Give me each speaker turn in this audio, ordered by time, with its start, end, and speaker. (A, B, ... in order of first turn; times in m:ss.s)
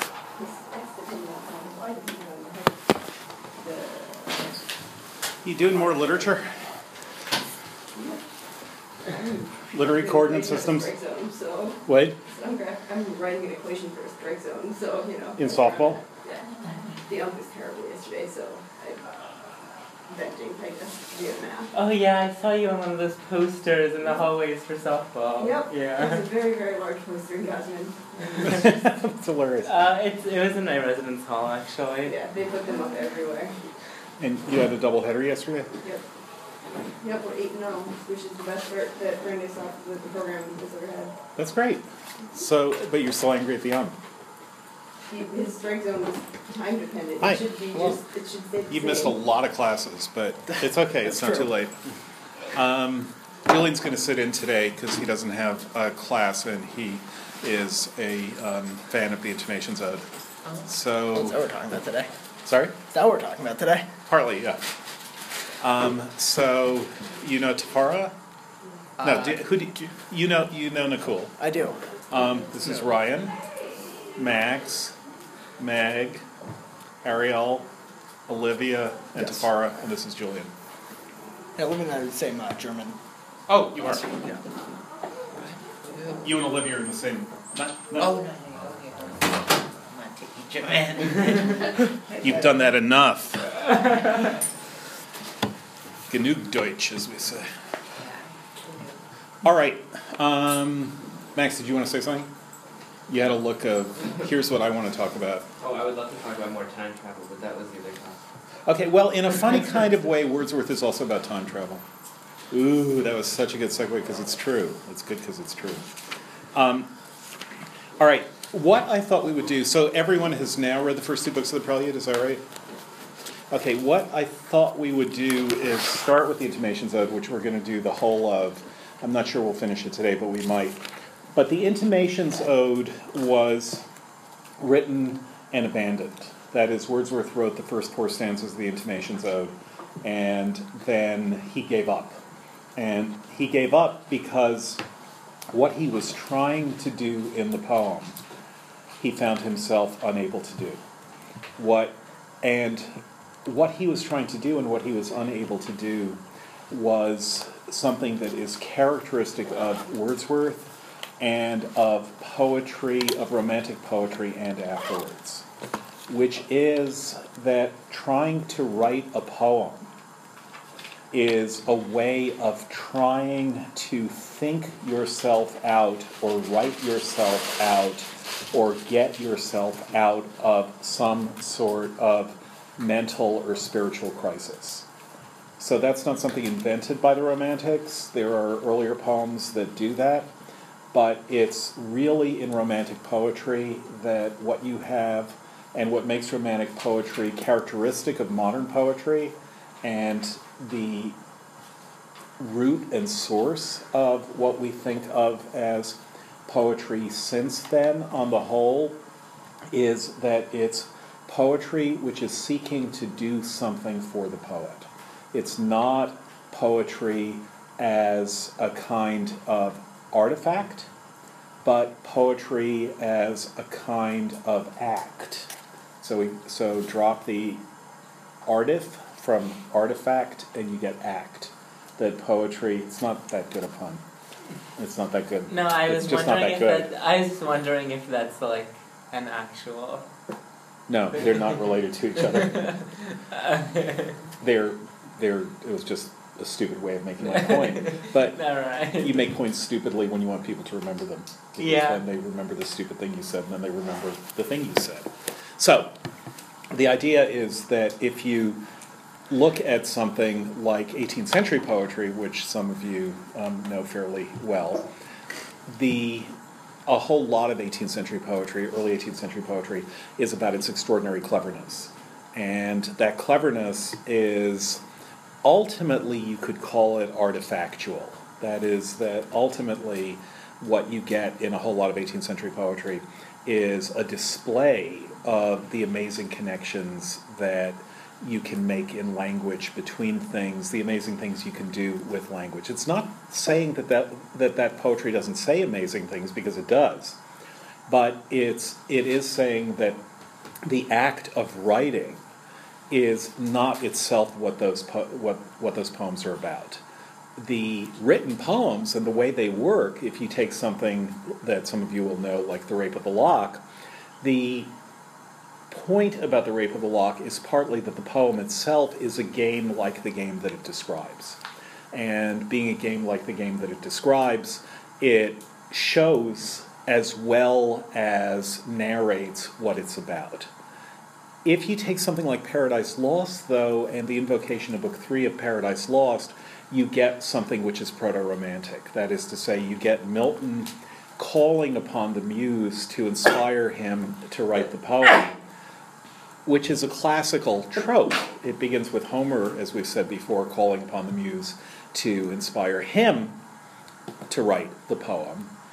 0:00.3-0:02.8 A
0:03.6-0:04.6 A
0:05.4-0:06.5 B
0:07.9-0:08.2 A
0:09.0-0:19.1 A
0:09.7-0:10.9 B
0:11.9-0:12.2 B
0:15.4-0:16.0 B
0:20.1-0:21.7 A
0:21.7-0:26.2 C
0:25.4-0:28.6 A
0:28.4-0:29.7 B
0:29.6-0:32.2 C
0:32.0-0:33.6 A
0:34.2-0:35.7 B
0:37.0-0:41.2 A
0:41.4-0:44.0 B
0:45.1-0:49.2 A
0:47.2-0:48.0 B
0:48.7-0:51.8 B
0:51.1-0:51.4 D
0:52.5-1:00.1 B
1:00.6-1:01.4 B
1:01.1-1:02.1 D
1:02.4-1:02.8 B
1:02.8-1:03.9 D
1:04.1-1:04.7 B
1:05.6-1:08.2 B
1:09.0-1:11.3 B
1:11.4-1:12.0 D
1:12.1-1:13.3 B
1:14.2-1:15.0 B
1:15.6-1:16.3 B
1:17.0-1:17.7 B
1:18.3-1:20.5 B
1:19.2-1:19.5 D
1:21.6-1:23.0 D
1:23.5-1:24.0 B
1:23.8-1:24.4 D
1:25.4-1:26.2 E
1:26.2-1:28.1 B
1:28.0-1:32.3 E
1:32.2-1:33.6 B
1:36.1-1:37.5 B
1:38.0-1:39.0 E
1:39.4-1:42.3 B
1:43.1-1:45.5 B
1:45.6-1:48.2 F
1:48.7-1:51.8 B
1:52.5-1:55.9 B
1:56.5-1:56.9 B
1:58.0-2:02.4 B
2:03.5-2:13.8 B
2:14.6-2:22.2 B
2:22.8-2:24.8 B
2:25.5-2:28.2 B
2:29.0-2:30.8 B
2:31.6-2:45.5 B
2:46.1-2:49.9 B
2:51.1-3:04.9 B
3:05.6-3:10.3 B
3:10.9-3:21.2 B
3:22.4-3:29.0 B
3:29.7-3:40.9 B
3:41.6-3:47.6 B
3:48.4-3:54.0 B
3:54.8-3:56.9 B
3:55.5-4:00.1 C
4:00.9-4:02.8 B
4:02.3-4:04.2 C
4:04.4-4:08.4 B
4:07.2-4:09.3 C
4:08.9-4:16.0 B
4:11.6-4:12.0 C
4:16.7-4:18.6 B
4:19.3-4:24.9 B
4:25.7-4:26.3 B
4:26.8-4:34.8 B
4:35.4-4:57.2 B
4:57.9-5:00.0 B
5:00.6-5:02.2 B
5:02.9-5:06.8 B
5:07.4-5:13.6 B
5:14.2-5:14.7 B
5:15.7-5:21.4 B
5:21.9-5:30.5 B
5:31.4-5:45.4 B
5:46.4-5:53.4 B
5:54.3-5:55.5 B